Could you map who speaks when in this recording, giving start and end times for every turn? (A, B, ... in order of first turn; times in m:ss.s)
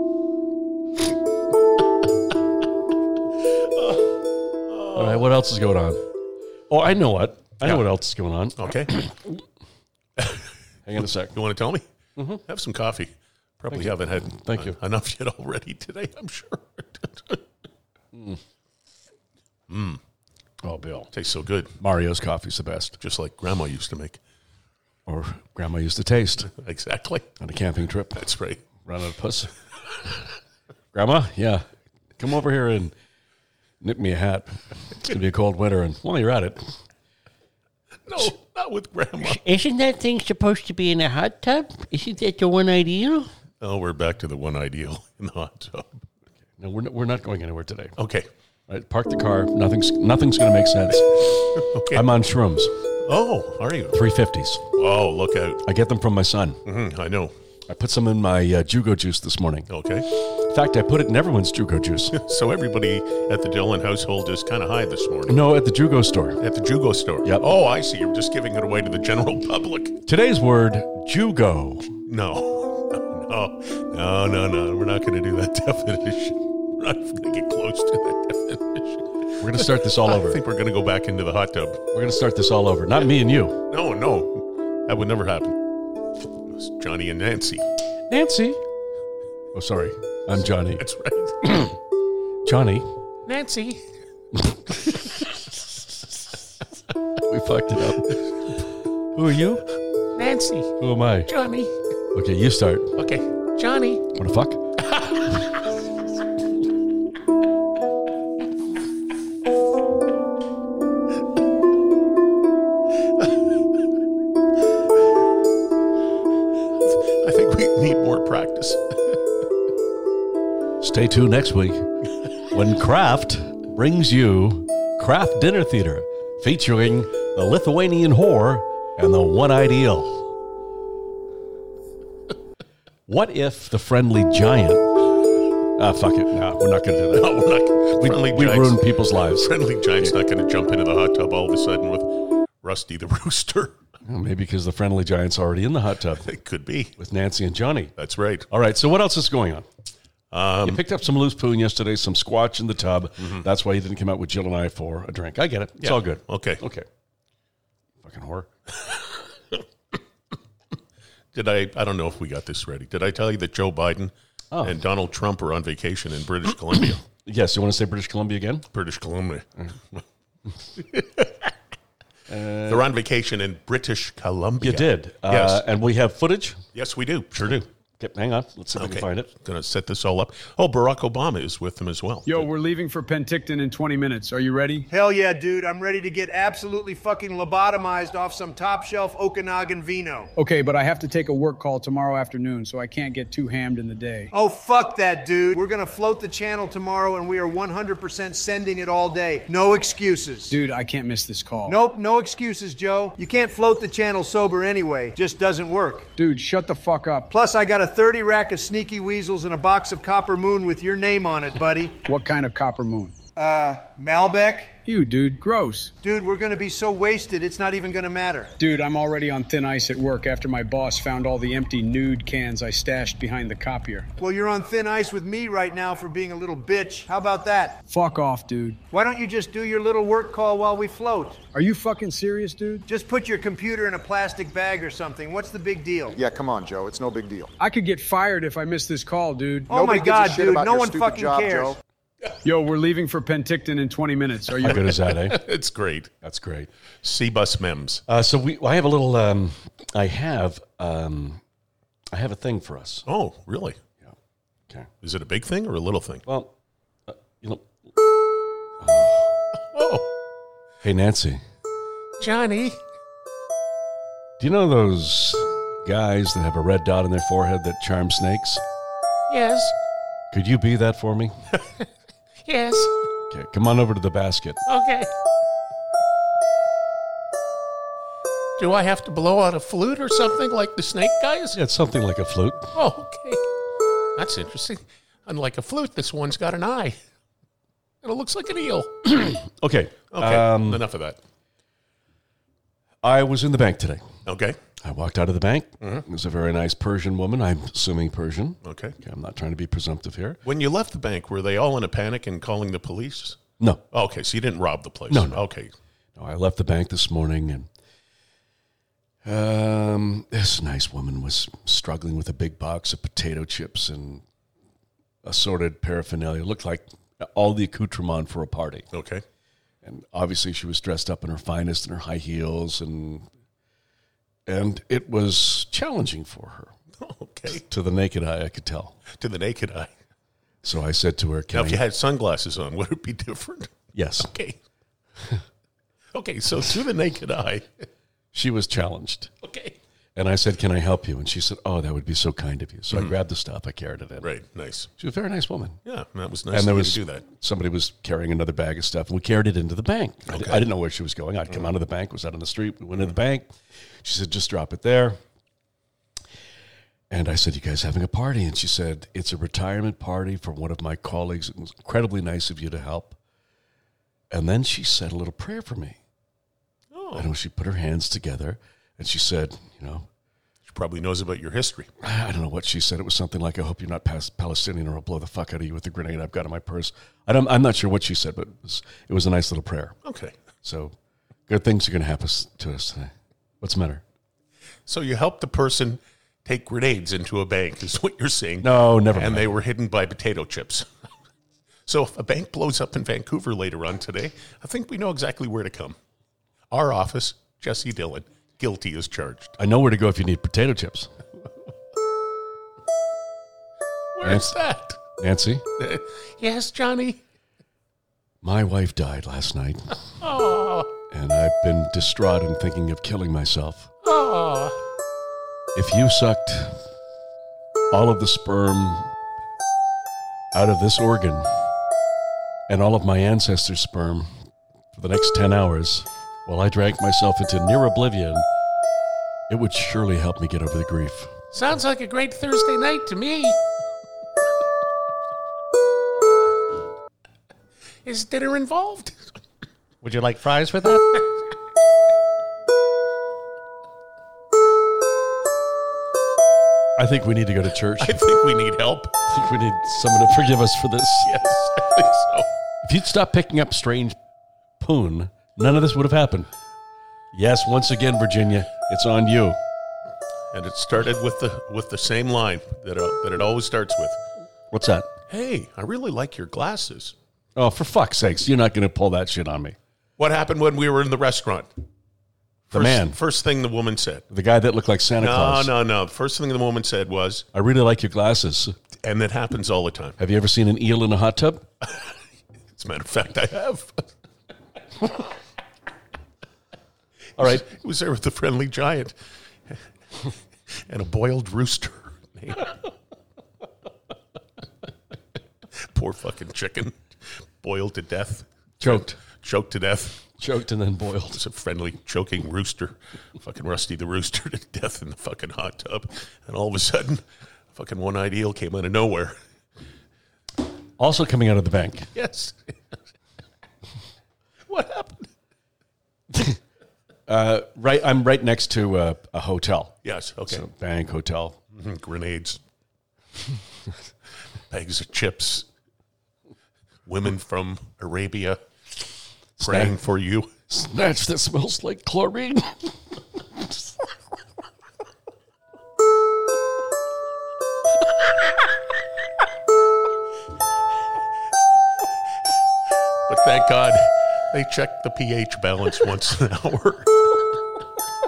0:04.7-0:05.2 A
0:04.9-0:06.0 B
0:06.7-0:09.3 B
0:08.6-0:08.9 A
0:10.2-0:10.4 A
0:10.9-0:11.4 B
0:11.3-0:11.8 A
0:12.5-0:17.4 A
0:13.7-0:14.8 B
0:18.1-0:18.4 B
0:19.7-0:20.0 A
0:20.6-0:21.1 B
0:21.1-0:21.7 A
0:21.8-0:23.0 B
0:23.0-0:24.2 A
0:25.1-0:26.5 B
0:26.5-0:27.3 A
0:27.4-0:29.5 B
0:28.2-0:28.6 A
0:30.9-0:31.6 B
0:32.2-0:32.9 B
0:33.8-0:36.7 B
0:38.1-0:39.4 A
0:39.3-0:43.3 C
0:43.6-0:45.9 A
0:46.6-0:47.9 B
0:48.0-0:48.3 A
0:48.7-0:52.7 B
0:51.6-0:52.0 A
0:53.0-0:54.0 A
0:53.9-0:54.7 B
0:54.8-0:55.6 A
0:55.6-0:56.6 B
0:56.6-0:57.3 A
0:57.7-1:02.2 B
0:59.7-1:00.0 A
1:02.1-1:05.5 A
1:05.3-1:06.4 B
1:06.4-1:10.0 A
1:10.1-1:11.9 B
1:12.1-1:21.8 A
1:19.4-1:20.4 B
1:21.9-1:23.6 B
1:23.7-1:25.6 A
1:26.5-1:27.6 A
1:28.1-1:28.6 B
1:29.6-1:30.8 B
1:30.5-1:31.6 A
1:31.4-1:31.7 B
1:32.4-1:32.9 B
1:33.3-1:33.8 A
1:37.2-1:38.6 B
1:39.1-1:39.7 B
1:40.2-1:41.7 A
1:40.8-1:41.3 B
1:42.1-1:42.9 B
1:43.0-1:44.0 A
1:44.1-1:44.6 B
1:45.0-1:45.3 A
1:56.9-1:59.2 A
2:00.8-2:01.9 B
2:02.5-2:10.2 B
2:13.1-2:14.9 B
2:15.8-2:17.4 B
2:17.1-2:18.8 A
2:18.0-2:20.1 B
2:19.4-2:23.8 A
2:24.0-2:26.3 B
2:26.2-2:26.9 A
2:27.0-2:27.9 B
2:28.0-2:28.5 A
2:28.5-2:29.7 B
2:30.3-2:30.8 A
2:30.6-2:36.9 B
2:35.8-2:36.6 A
2:38.0-2:38.5 B
2:41.3-2:47.0 A
2:44.5-2:44.8 B
2:47.2-2:48.7 B
2:48.7-2:50.0 A
2:50.8-2:51.5 A
2:52.3-2:52.9 B
2:52.7-2:55.6 A
2:54.6-2:56.6 B
2:56.8-2:57.7 A
2:58.0-2:59.3 B
2:58.8-3:02.5 A
3:02.3-3:04.9 D
3:04.9-3:10.3 E
3:10.4-3:14.3 D
3:14.3-3:20.6 E
3:20.5-3:21.8 D
3:21.7-3:26.1 E
3:26.2-3:27.3 D
3:27.3-3:32.0 E
3:32.0-3:33.2 D
3:33.4-3:34.7 E
3:34.9-3:35.9 D
3:36.0-3:38.5 E
3:38.6-3:44.1 D
3:44.2-3:47.8 E
3:47.9-3:48.8 D
3:48.9-3:51.4 E
3:51.5-3:52.9 D
3:52.9-3:56.2 E
3:56.1-3:57.5 F
3:57.6-3:59.8 D
3:59.7-4:01.8 E
3:59.7-4:01.8 F
4:02.4-4:04.8 D
4:04.6-4:05.4 B
4:04.6-4:06.1 A
4:06.2-4:06.7 B
4:07.0-4:08.0 A
4:08.1-4:11.4 B
4:12.1-4:13.0 B
4:13.1-4:13.8 A
4:15.0-4:16.2 A
4:16.3-4:16.5 B
4:17.1-4:17.7 B
4:18.8-4:19.4 B
4:19.7-4:20.1 A
4:20.8-4:21.4 B
4:22.2-4:22.8 A
4:24.4-4:28.6 B
4:29.3-4:29.8 A
4:30.3-4:31.3 B
4:32.4-4:32.9 A
4:33.3-4:34.6 B
4:34.7-4:35.1 A
4:38.6-4:41.6 A
4:41.6-4:42.7 B
4:42.7-4:43.4 A
4:44.2-4:47.0 A
4:48.0-4:49.0 A
4:49.1-4:50.8 B
4:50.1-4:51.2 A
4:53.0-4:54.0 B
4:54.2-4:54.6 A
4:54.8-5:00.4 B
4:58.6-4:59.0 A
5:00.4-5:03.4 A
5:03.9-5:05.7 A
5:05.1-5:05.4 B
5:06.2-5:07.7 B
5:09.2-5:14.2 B
5:15.2-5:18.9 B
5:18.9-5:19.2 A
5:19.8-5:23.3 B
5:24.5-5:26.7 B
5:27.0-5:27.6 A
5:27.5-5:29.0 B
5:29.2-5:29.9 A
5:30.6-5:31.8 B
5:31.5-5:34.6 A
5:34.0-5:34.3 B
5:36.1-5:37.8 A
5:38.3-5:39.3 B
5:39.4-5:39.8 A
5:40.2-5:44.3 B
5:44.2-5:44.9 A
5:45.0-5:45.8 B
5:45.8-5:47.2 A
5:46.5-5:53.5 B
5:50.3-5:50.7 A
5:54.0-5:55.2 B
5:57.1-6:03.2 B
6:04.3-6:06.0 B
6:06.9-6:07.3 A
6:07.2-6:10.1 B
6:10.7-6:11.9 A
6:12.0-6:20.0 B
6:20.0-6:20.4 A
6:20.6-6:20.9 B
6:21.5-6:24.0 B
6:24.9-6:30.9 A
6:28.6-6:29.6 B
6:31.9-6:36.0 A
6:36.7-6:39.6 A
6:39.6-6:41.1 B
6:44.2-6:45.0 A
6:44.2-6:44.6 B
6:45.2-6:45.6 B
6:45.8-6:47.2 A
6:48.4-6:50.0 B
6:50.2-6:50.9 A
6:51.1-6:53.9 B
6:54.0-6:54.8 A
6:55.8-6:56.8 B
6:57.9-6:59.1 B
7:00.5-7:01.5 B
7:02.7-7:04.3 B
7:04.9-7:08.5 B
7:09.5-7:11.3 B
7:11.5-7:13.6 A
7:18.0-7:19.4 A
7:27.0-7:28.2 B
7:28.0-7:29.2 A
7:29.2-7:31.3 B
7:31.2-7:32.5 A
7:32.8-7:34.2 B
7:34.8-7:36.5 B
7:37.3-7:39.6 B
7:40.5-7:44.2 A
7:44.7-7:45.1 B
7:45.3-7:47.2 A
7:47.6-7:49.8 B
7:50.2-7:51.7 A
7:52.7-7:53.2 B
7:52.7-7:54.2 A
7:54.3-7:55.7 B
7:55.2-7:57.5 A
7:57.5-7:58.8 B
7:59.0-8:00.2 A
8:00.2-8:01.7 B
8:02.8-8:04.1 A
8:07.4-8:07.7 B
8:07.4-8:09.2 A
8:10.9-8:12.7 A
8:15.8-8:20.2 A
8:18.8-8:19.2 B
8:20.4-8:21.4 B
8:21.3-8:27.2 A
8:27.8-8:29.4 A
8:31.0-8:32.1 B
8:32.2-8:32.8 A
8:34.7-8:35.3 A
8:37.3-8:40.0 B
8:40.0-8:40.6 A
8:40.5-8:41.6 B
8:41.7-8:42.6 A
8:44.7-8:45.7 A
8:47.1-8:48.6 A
8:49.6-8:50.0 B
8:49.6-8:50.5 A
8:50.7-8:53.0 B
9:03.3-9:07.1 A